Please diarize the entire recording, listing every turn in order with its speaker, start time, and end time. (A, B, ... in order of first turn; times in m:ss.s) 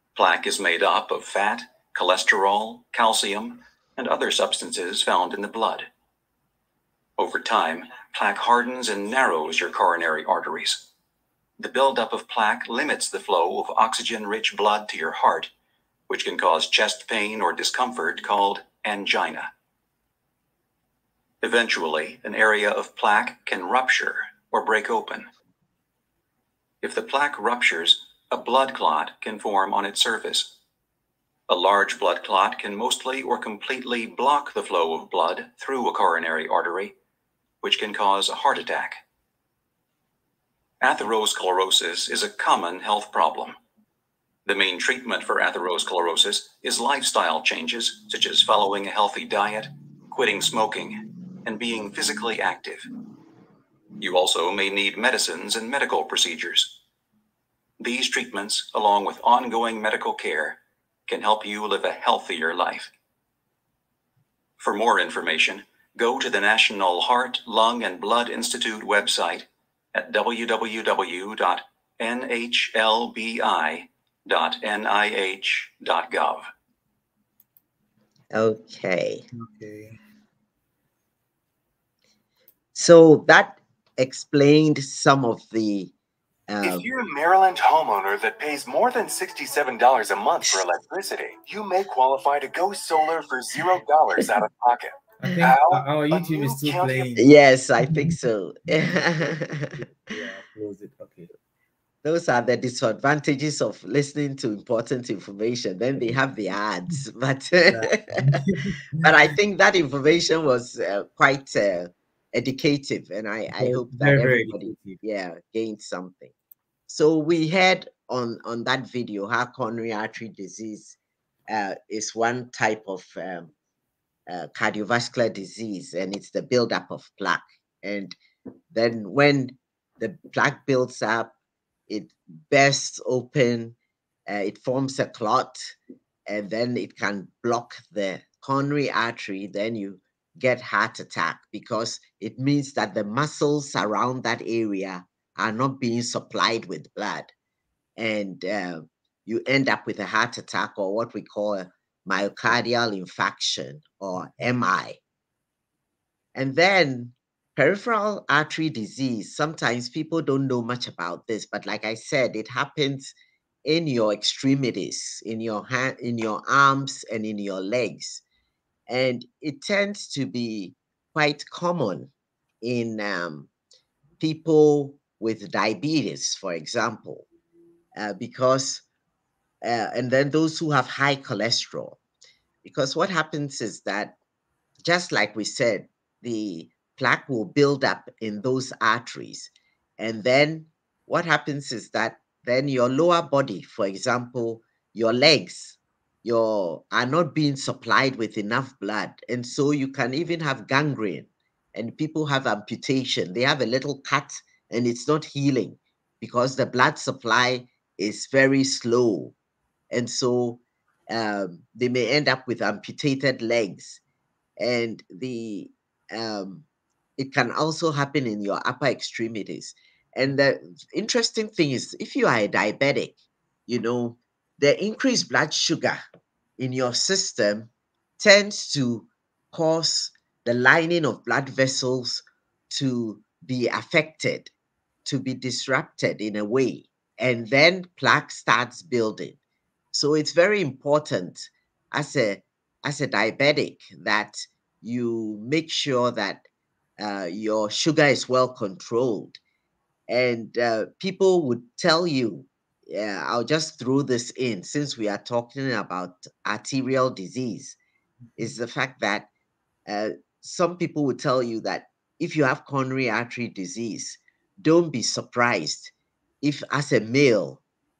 0:00.1-0:05.9 A
0:07.2-0:10.9 A
0:11.6-0:15.5 A
0:16.1-0:19.5 A
0:21.4-0:25.2 A
0:26.8-0:30.5 A
0:31.5-0:36.9 A
0:37.6-0:39.0 A
0:40.8-0:43.5 A
0:44.4-0:52.9 A
0:54.0-0:56.8 A
0:57.8-1:02.9 A
1:04.6-1:16.5 A
1:18.3-1:19.3 B
1:19.3-1:20.0 C
1:22.7-1:25.9 B
1:26.5-1:26.8 B
1:26.6-1:37.1 D
1:35.2-1:37.3 C
1:37.2-1:39.8 B
1:37.9-1:38.1 C
1:39.8-1:41.3 C
1:42.0-1:48.4 B
1:47.7-1:49.1 C
1:49.0-1:56.3 B
1:53.6-1:55.0 C
1:56.9-2:01.0 B
2:01.5-2:03.5 B
2:04.3-2:08.2 B
2:08.7-2:11.3 B
2:11.9-2:13.8 B
2:14.3-2:15.7 B
2:16.3-2:27.3 B
2:28.0-2:35.0 B
2:36.3-2:43.1 B
2:43.6-2:48.2 B
2:48.9-2:52.1 B
2:52.6-2:53.5 B
2:54.2-2:57.2 B
2:58.0-2:58.8 B
2:59.6-3:02.0 B
3:02.6-3:04.2 B
3:04.8-3:29.3 B
3:29.9-3:34.0 B
3:34.6-3:36.6 B
3:37.2-3:43.1 B
3:43.7-3:46.0 B
3:46.6-3:54.5 B
3:55.0-3:59.4 B
3:59.9-4:06.4 B
4:07.0-4:09.4 B
4:10.1-4:17.8 B
4:18.4-4:19.3 B
4:19.9-4:27.6 B